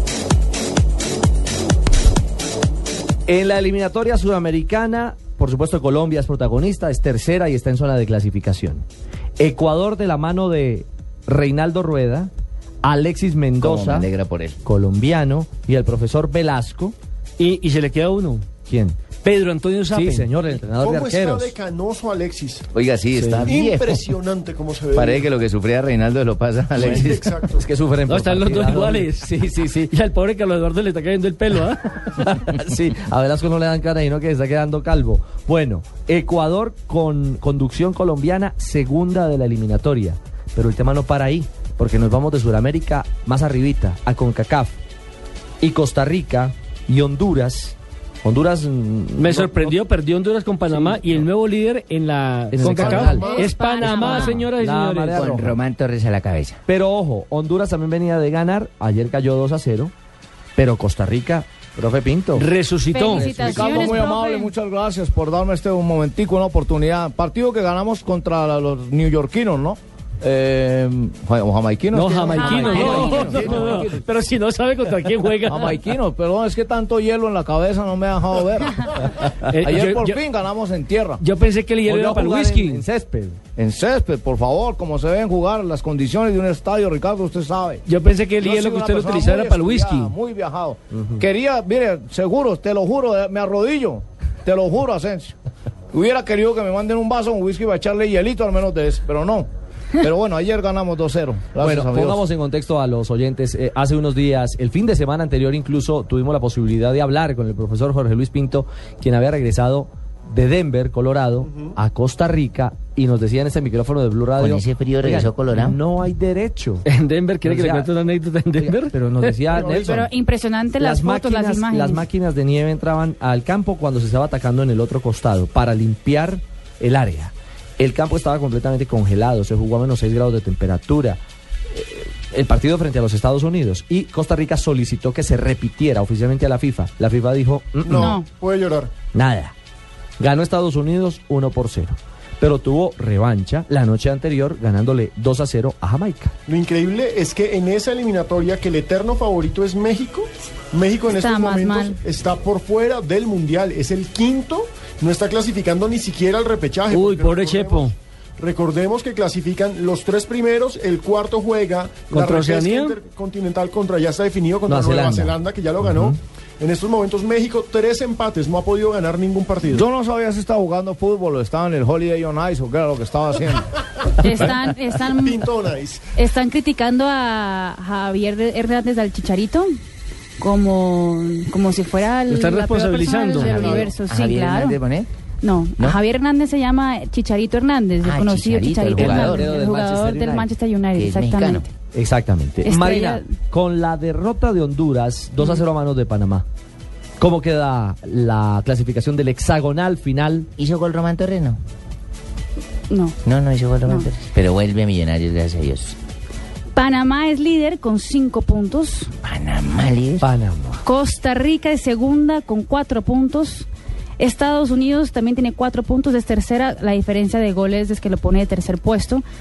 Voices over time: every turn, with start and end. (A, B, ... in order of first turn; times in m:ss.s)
0:03.3-0:08.8 A
0:09.4-0:12.3 A
0:12.8-0:14.1 A
0:13.6-0:14.6 B
0:14.6-0:17.0 A
0:17.4-0:18.5 C
0:18.7-0:19.0 A
0:19.2-0:20.3 C
0:19.9-0:21.5 A
0:20.8-0:22.7 D
0:22.7-0:24.0 B
0:23.1-0:23.5 C
0:23.4-0:25.3 D
0:25.0-0:27.3 B
0:26.8-0:27.7 D
0:26.8-0:29.9 A
0:28.1-0:29.3 C
0:29.9-0:32.3 C
0:32.2-0:44.8 A
0:45.6-0:49.8 A
0:49.2-0:55.5 C
0:50.7-0:51.2 A
0:52.5-0:53.4 A
0:52.8-0:53.4 D
0:52.9-0:54.5 E
0:54.0-0:55.6 A
0:55.1-0:56.6 B
0:56.7-0:59.9 A
1:00.6-1:02.5 A
1:02.4-1:03.8 C
1:02.9-1:04.5 E
1:03.1-1:14.0 F
1:11.9-1:15.8 C
1:12.2-1:13.8 E
1:15.4-1:19.0 F
1:19.5-1:20.2 C
1:19.5-1:21.2 F
1:21.2-1:22.8 C
1:21.9-1:23.4 A
1:23.6-1:27.8 F
1:27.9-1:30.1 C
1:28.4-1:35.4 F
1:35.9-1:42.2 F
1:41.6-1:56.8 A
1:51.4-1:51.8 D
1:54.4-1:55.8 B
1:56.8-1:59.4 C
1:57.4-1:57.9 A
1:58.6-2:00.1 A
1:59.5-1:59.9 D
1:59.6-2:02.1 E
2:00.8-2:11.2 A
2:11.7-2:18.2 A
2:17.8-2:18.9 D
2:17.9-2:18.3 E
2:19.1-2:19.5 A
2:20.2-2:26.3 A
2:26.5-2:49.9 D
2:31.1-2:32.0 E
2:36.9-2:38.0 C
2:42.1-2:43.0 C
2:44.7-2:46.2 A
2:49.7-2:53.7 F
2:54.2-2:55.5 E
2:55.2-2:56.1 D
2:56.2-2:59.7 E
3:00.4-3:04.8 E
3:02.3-3:03.8 C
3:03.4-3:05.1 B
3:05.4-3:11.7 E
3:08.0-3:09.5 B
3:09.0-3:10.5 A
3:10.9-3:11.7 B
3:11.9-3:16.4 A
3:12.6-3:13.3 E
3:17.2-3:20.5 A
3:20.6-3:21.6 B
3:22.9-3:23.2 E
3:23.2-3:26.0 B
3:26.7-3:29.1 E
3:29.2-3:30.3 B
3:30.2-3:30.8 A
3:30.8-3:39.2 E